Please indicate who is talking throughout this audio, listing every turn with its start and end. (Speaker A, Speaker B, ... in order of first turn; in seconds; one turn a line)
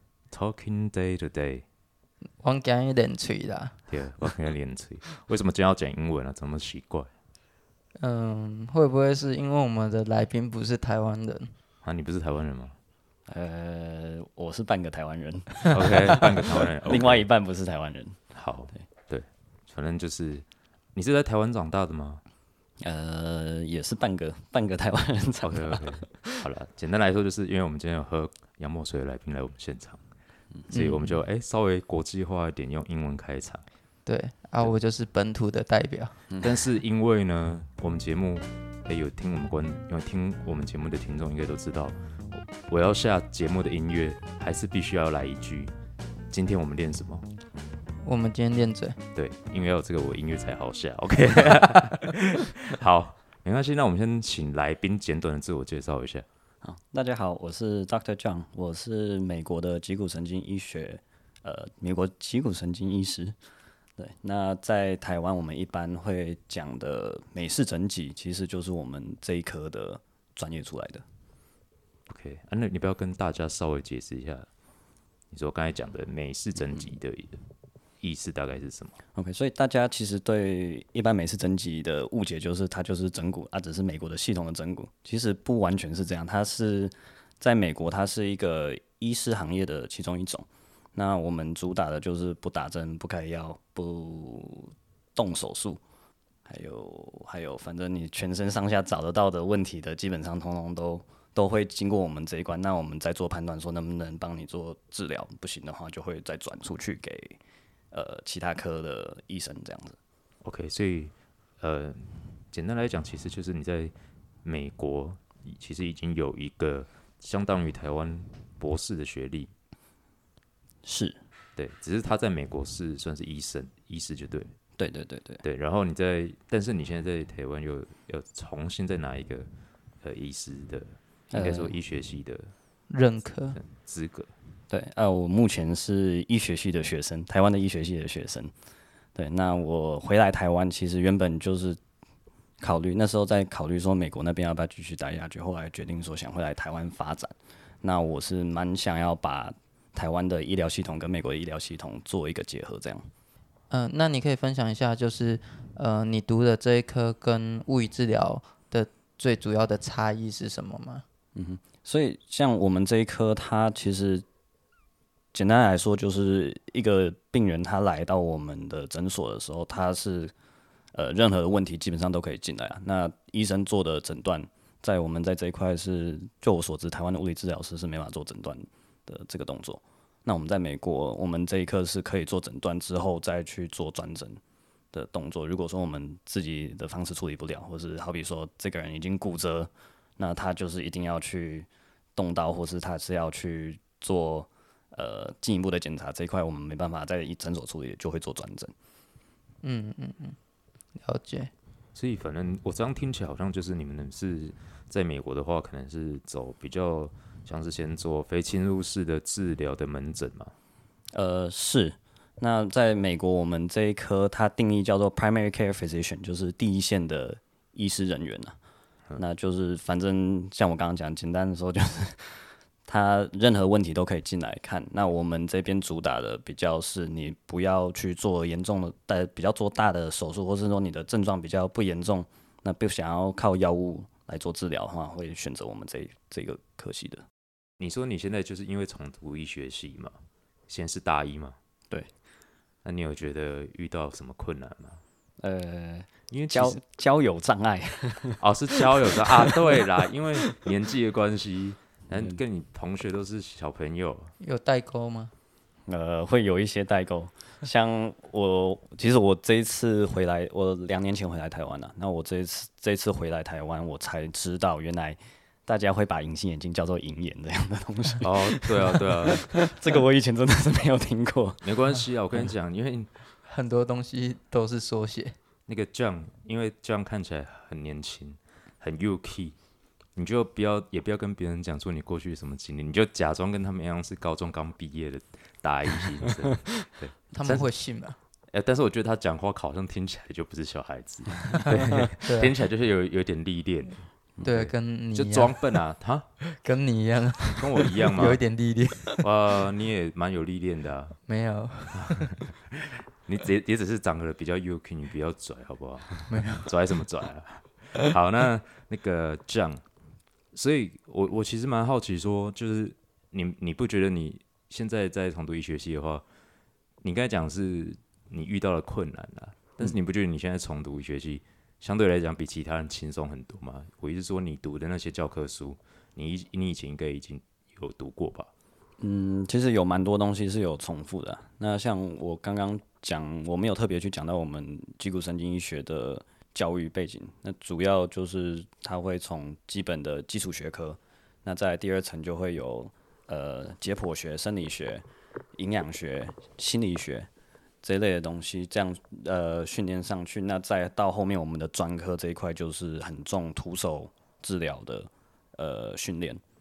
Speaker A: 0.3-1.6
Speaker B: 2.4-3.8
Speaker A: 3.9-7.1
Speaker B: 8.0-11.5
Speaker A: 11.8-12.8
Speaker C: 13.3-18.2
Speaker A: 15.7-17.2
Speaker A: 18.3-22.2
Speaker C: 22.8-26.4
Speaker A: 25.4-30.0
Speaker C: 30.6-30.9
Speaker A: 30.7-33.6
Speaker B: 34.0-36.2
Speaker A: 36.4-45.7
Speaker A: 46.3-47.2
Speaker B: 48.0-49.0
Speaker A: 49.1-56.2
Speaker C: 56.6-63.4
Speaker C: 64.0-71.0
Speaker A: 72.1-74.5
Speaker A: 75.3-77.4
Speaker A: 78.0-79.0
Speaker C: 79.1-95.8
Speaker C: 96.5-107.4
Speaker C: 107.9-110.0
Speaker A: 110.4-113.9
Speaker A: 114.4-119.5
Speaker C: 120.8-121.2
Speaker A: 121.5-124.5
Speaker C: 124.8-125.4
Speaker A: 125.4-129.5
Speaker A: 130.0-132.5
Speaker C: 131.3-131.7
Speaker B: 132.9-133.6
Speaker A: 133.5-134.3
Speaker C: 134.7-138.5
Speaker C: 139.2-141.8
Speaker C: 142.6-153.1
Speaker B: 153.7-161.0
Speaker C: 161.3-164.2
Speaker C: 165.3-170.3
Speaker C: 170.9-184.4
Speaker C: 184.9-198.7
Speaker B: 199.6-200.4
Speaker B: 200.9-201.5
Speaker A: 201.9-210.5
Speaker C: 211.1-218.5
Speaker C: 219.2-237.2
Speaker A: 237.8-240.2
Speaker A: 240.7-241.6
Speaker A: 242.8-245.0
Speaker C: 245.4-249.8
Speaker A: 246.3-246.8
Speaker A: 248.4-254.3
Speaker B: 254.4-255.3
Speaker C: 255.9-271.6
Speaker A: 268.2-269.5
Speaker A: 271.6-273.1
Speaker B: 273.4-275.3
Speaker A: 275.7-279.5
Speaker A: 280.1-287.7
Speaker B: 287.3-288.1
Speaker A: 288.5-296.3
Speaker B: 291.7-292.5
Speaker B: 294.4-295.8
Speaker B: 296.4-299.2
Speaker A: 297.6-298.4
Speaker A: 299.2-301.2
Speaker B: 301.3-302.3
Speaker A: 301.9-309.8
Speaker B: 306.3-306.7
Speaker A: 310.5-316.2
Speaker A: 317.0-328.5
Speaker C: 329.0-345.0
Speaker C: 345.6-347.3
Speaker C: 347.8-356.4